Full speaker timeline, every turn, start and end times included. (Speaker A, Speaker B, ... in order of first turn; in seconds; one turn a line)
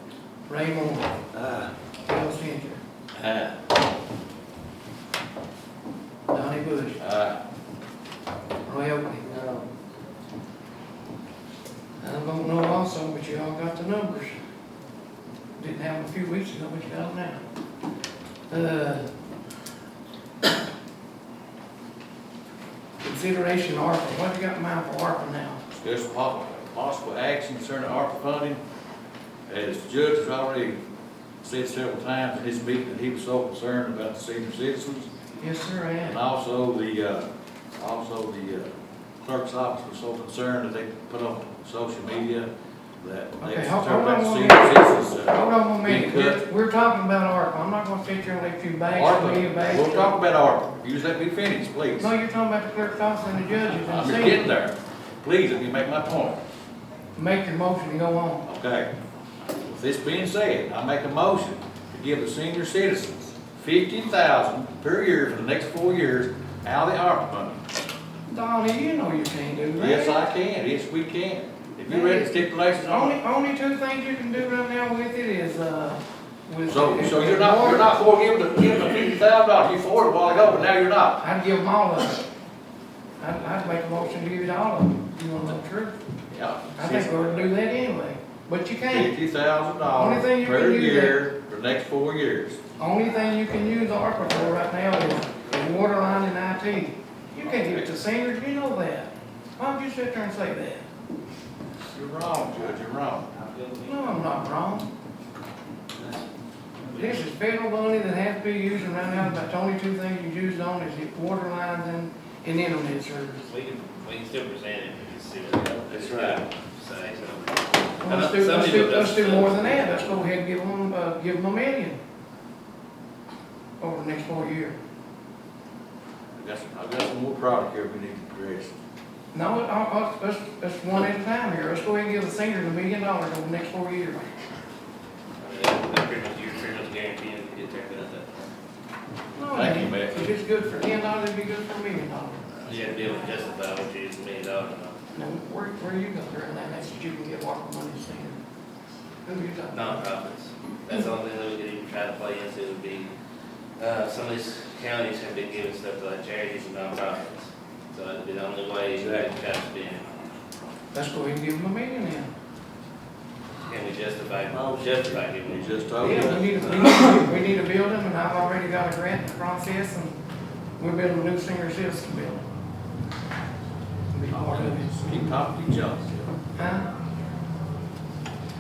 Speaker A: 0.5-1.2
Speaker B: 1.3-1.7
Speaker A: 2.1-2.8
Speaker B: 3.1-3.6
Speaker A: 6.3-7.0
Speaker B: 7.0-7.4
Speaker A: 8.7-9.4
Speaker A: 12.0-14.4
Speaker A: 15.6-17.4
Speaker A: 18.5-19.1
Speaker A: 23.0-25.6
Speaker B: 25.8-28.6
Speaker B: 29.5-30.8
Speaker B: 31.4-35.1
Speaker A: 35.4-36.2
Speaker B: 36.0-42.5
Speaker B: 43.0-46.4
Speaker A: 43.4-50.2
Speaker B: 48.9-52.1
Speaker A: 52.0-54.5
Speaker B: 53.8-56.4
Speaker A: 57.2-58.5
Speaker B: 58.5-58.9
Speaker B: 59.6-67.6
Speaker A: 68.3-70.2
Speaker B: 69.8-73.2
Speaker A: 71.8-77.9
Speaker B: 76.7-81.2
Speaker A: 81.2-82.2
Speaker A: 83.2-86.0
Speaker B: 86.3-87.5
Speaker A: 86.8-89.2
Speaker B: 88.9-92.6
Speaker A: 90.0-91.2
Speaker A: 92.8-100.9
Speaker B: 97.4-97.9
Speaker B: 101.8-103.3
Speaker C: 103.3-104.1
Speaker A: 103.8-104.9
Speaker A: 107.0-113.5
Speaker C: 113.4-120.2
Speaker B: 115.5-116.4
Speaker A: 118.0-122.0
Speaker A: 123.8-124.8
Speaker B: 126.4-128.7
Speaker A: 129.3-134.3
Speaker C: 135.4-138.5
Speaker A: 139.3-142.9
Speaker B: 139.5-140.3
Speaker C: 142.7-145.0
Speaker A: 145.1-148.4
Speaker A: 149.2-150.0
Speaker C: 149.7-153.1
Speaker C: 153.8-160.1
Speaker B: 158.9-159.3
Speaker A: 160.9-162.3
Speaker C: 163.7-167.0
Speaker B: 165.4-166.8
Speaker A: 166.0-170.2
Speaker A: 170.8-172.5
Speaker A: 174.1-175.3
Speaker B: 174.3-176.3
Speaker A: 176.6-176.9